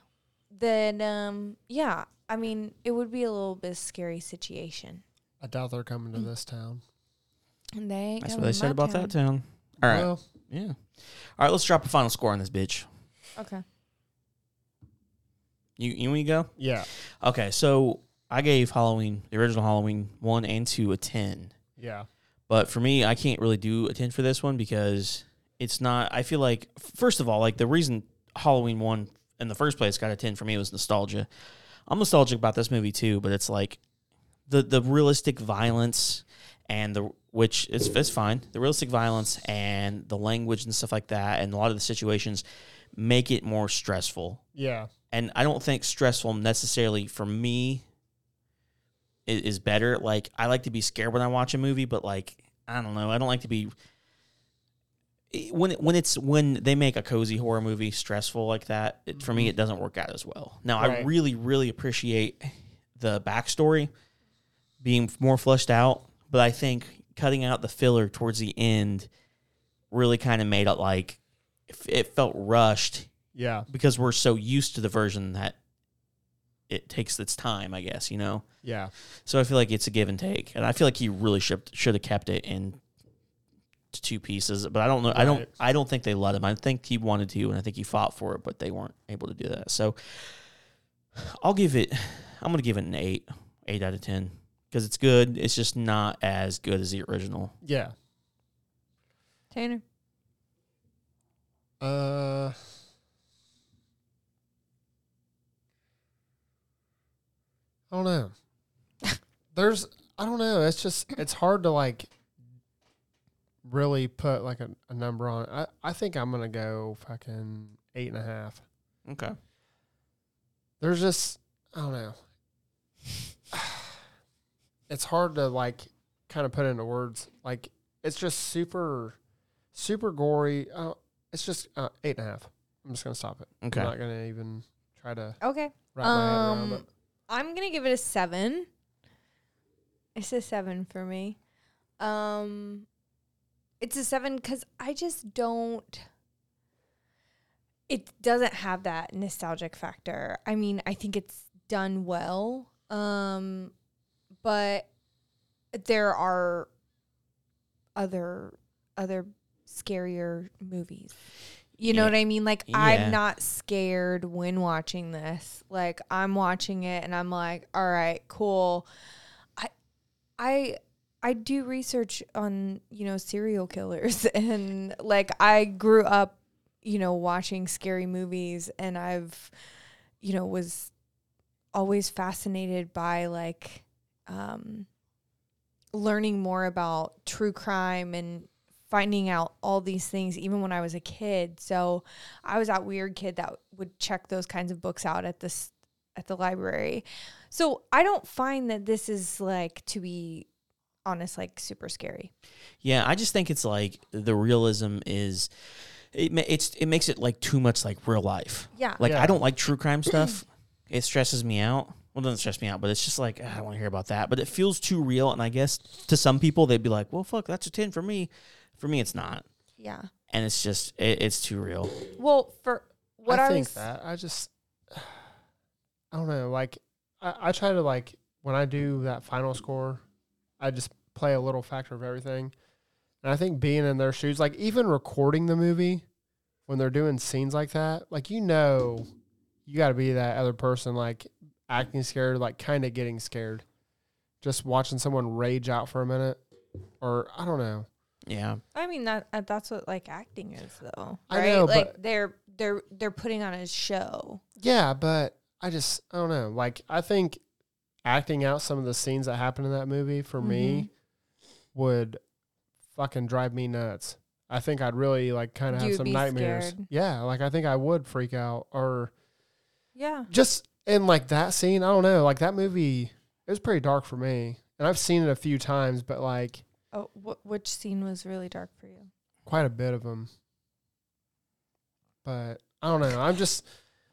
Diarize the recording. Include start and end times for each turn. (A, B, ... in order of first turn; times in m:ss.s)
0:00.5-0:05.0 A
0:05.4-0:06.8 B
0:07.8-0:09.1 A
0:08.2-0:12.9 C
0:09.8-0:10.2 B
0:13.4-0:13.6 A
0:15.8-0:21.6 C
0:16.6-0:16.9 B
0:21.8-0:22.1 B
0:22.5-0:31.3 C
0:31.9-0:33.8 C
0:34.5-0:42.4 C
0:43.0-0:44.4 C
0:44.6-0:44.9 B
0:45.1-0:47.8 C
0:49.3-0:53.7 C
0:55.3-1:03.9 C
1:00.8-1:01.1 B
1:04.8-1:09.1 C
1:09.9-1:13.1 C
1:13.3-1:13.7 B
1:13.7-1:15.6 C
1:16.7-1:18.4 C
1:18.6-1:18.9 B
1:19.0-1:22.8 C
1:23.9-1:30.5 C
1:25.1-1:25.5 B
1:31.2-1:37.5 C
1:37.6-1:38.0 B
1:39.5-1:39.8 A
1:41.8-1:42.8 B
1:47.9-1:48.4 B
1:49.5-1:52.1 B
1:53.6-1:58.6 B
1:59.1-1:59.4 C
2:00.8-2:02.2 B
2:03.5-2:04.1 B
2:04.9-2:09.2 B
2:09.7-2:15.4 B
2:13.6-2:13.9 C
2:15.4-2:18.7 A
2:15.9-2:16.9 B
2:20.2-2:21.4 A
2:22.0-2:22.9 A
2:23.8-2:26.1 A
2:27.9-2:33.7 A
2:34.4-2:34.9 A
2:35.7-2:36.7 A
2:38.0-2:41.2 A
2:41.8-2:48.9 A
2:41.9-2:42.2 C
2:42.7-2:43.2 C
2:50.4-2:59.5 A
3:00.2-3:00.9 A
3:01.7-3:04.9 A
3:05.9-3:20.5 A
3:21.0-3:22.3 A
3:22.8-3:25.5 C
3:26.1-3:39.4 C
3:28.8-3:29.0 A
3:29.0-3:29.4 B
3:39.8-3:40.1 A
3:40.3-3:42.0 C
3:42.2-3:43.9 A
3:43.3-3:45.3 B
3:46.1-3:50.0 B
3:50.6-3:52.5 B
3:53.2-3:56.0 B
3:56.7-3:59.1 B
3:59.7-4:03.6 B
4:04.4-4:06.4 B
4:07.0-4:07.9 B
4:08.3-4:08.6 C
4:08.7-4:14.4 A
4:11.3-4:12.0 B
4:14.6-4:17.4 B
4:18.0-4:20.9 B
4:20.4-4:20.9 A
4:21.7-4:22.2 B
4:22.9-4:29.1 B
4:25.7-4:26.9 A
4:30.0-4:30.3 A
4:30.3-4:36.6 B
4:36.9-4:39.1 A
4:39.5-4:40.3 B
4:42.2-4:43.7 B